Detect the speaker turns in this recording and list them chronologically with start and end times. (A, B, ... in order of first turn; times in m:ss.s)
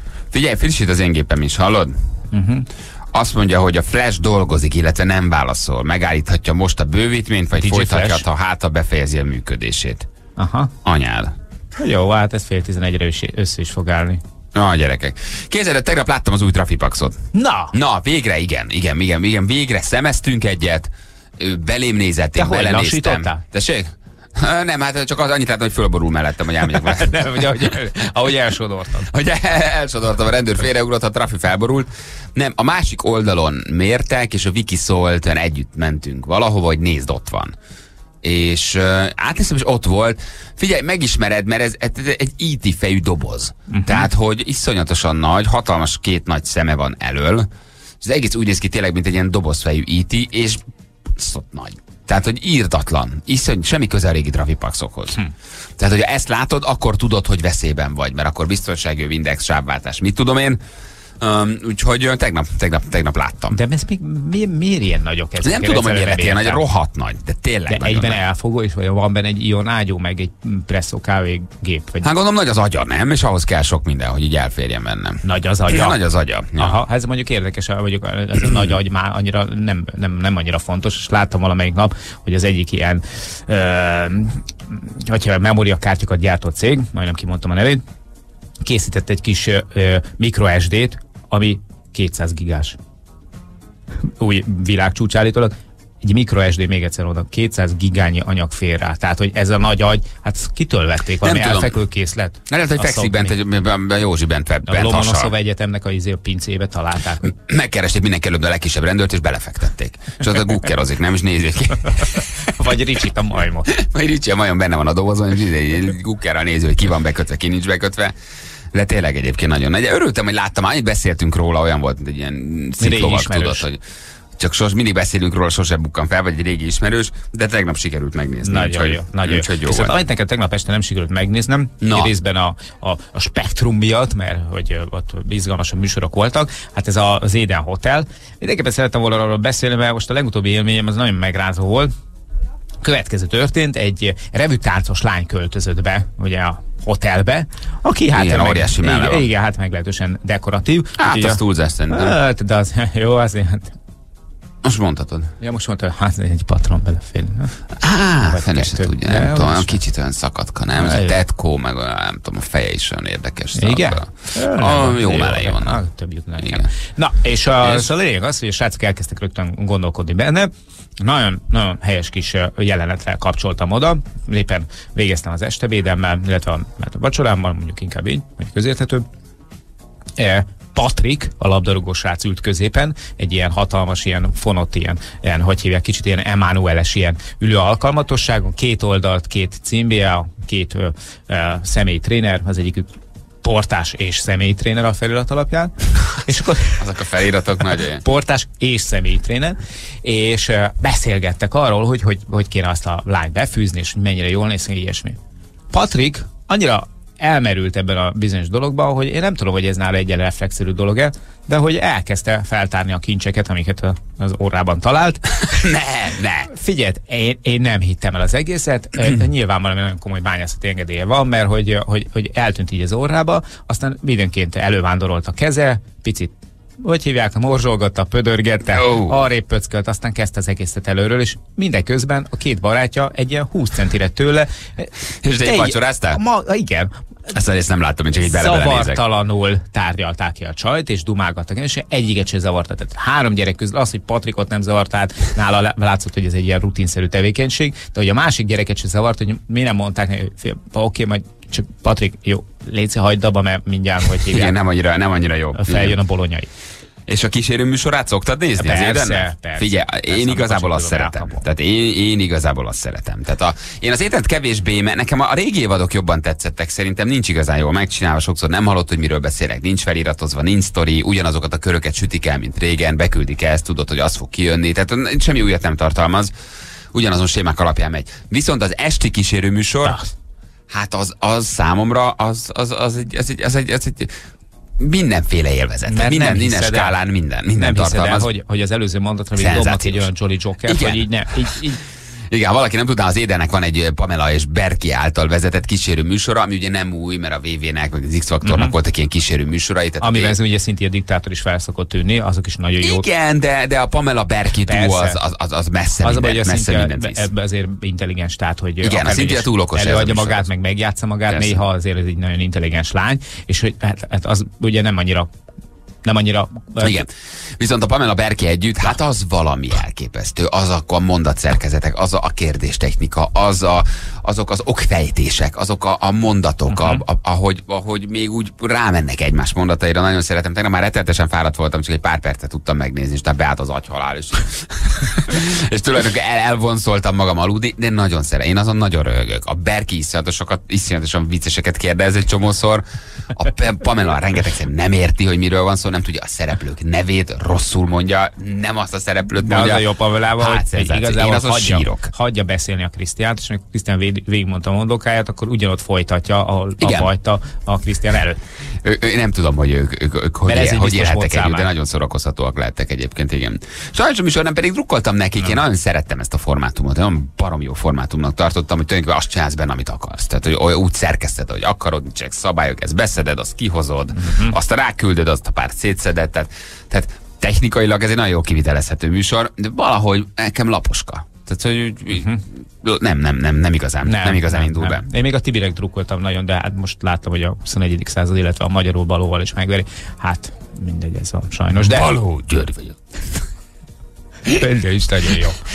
0:00.3-0:01.9 A
0:02.3-0:02.7 B
0:03.1-0:10.1 A
0:07.6-0:08.2 B
0:10.4-0:10.7 B
0:10.8-0:11.3 A
0:11.8-0:14.2 B
0:14.5-0:37.6 A
0:17.3-0:17.7 B
0:22.4-0:23.4 B
0:26.7-0:29.1 B
0:38.2-0:47.5 A
0:43.7-0:44.1 B
0:48.0-0:55.2 A
0:55.8-1:00.6 A
1:01.2-1:03.6 A
1:03.5-1:06.6 B
1:05.4-1:08.2 A
1:07.7-1:12.1 B
1:12.0-1:16.8 A
1:15.2-1:16.0 B
1:16.6-1:27.8 B
1:28.6-1:32.8 B
1:34.0-1:43.3 B
1:41.2-1:41.8 A
1:42.5-1:45.3 A
1:44.6-1:47.3 B
1:47.3-1:52.5 A
1:52.5-1:53.7 B
1:53.7-1:58.2 A
1:58.7-2:03.8 A
2:02.8-2:03.6 B
2:04.4-2:09.9 A
2:08.4-2:21.9 B
2:11.8-2:12.1 A
2:22.8-2:33.7 B
2:28.1-2:29.3 A
2:31.0-2:32.2 A
2:34.6-2:35.3 A
2:35.4-2:37.5 B
2:37.8-2:45.8 A
2:38.3-2:39.8 B
2:40.8-2:41.2 B
2:43.6-2:59.0 B
2:46.4-2:46.7 A
2:47.6-2:47.9 A
3:00.2-3:12.9 B
3:13.4-3:16.8 B
3:16.8-3:18.0 A
3:18.0-3:25.2 B
3:25.7-3:35.3 B
3:35.4-3:36.5 A
3:36.5-3:56.9 B
3:48.7-3:49.2 A
3:55.2-3:56.2 A
3:57.3-3:59.0 A
3:58.2-4:14.5 B
4:14.3-4:16.0 A
4:15.5-4:16.5 B
4:17.1-4:36.3 A
4:18.6-4:21.4 B
4:36.9-4:40.0 A
4:40.7-4:44.2 A
4:44.8-4:48.3 A
4:45.8-4:46.9 B
4:47.6-4:51.8 B
4:49.3-4:50.1 A
4:50.6-4:51.6 A
4:52.3-5:00.4 A
4:58.4-4:58.7 B
5:00.0-5:03.0 B
5:02.8-5:07.3 A
5:04.6-5:05.2 B
5:06.0-5:15.3 B
5:08.8-5:10.5 A
5:11.3-5:11.6 A
5:16.0-5:17.0 B
5:16.8-5:42.8 A
5:26.7-5:27.0 B
5:43.3-5:52.1 A
5:49.4-5:58.4 B
5:56.8-5:57.1 A
5:58.8-6:25.0 A
6:00.5-6:01.7 B
6:14.2-6:14.5 B
6:22.1-6:22.4 B
6:24.0-6:32.2 B
6:31.7-6:33.0 A
6:34.5-6:35.6 B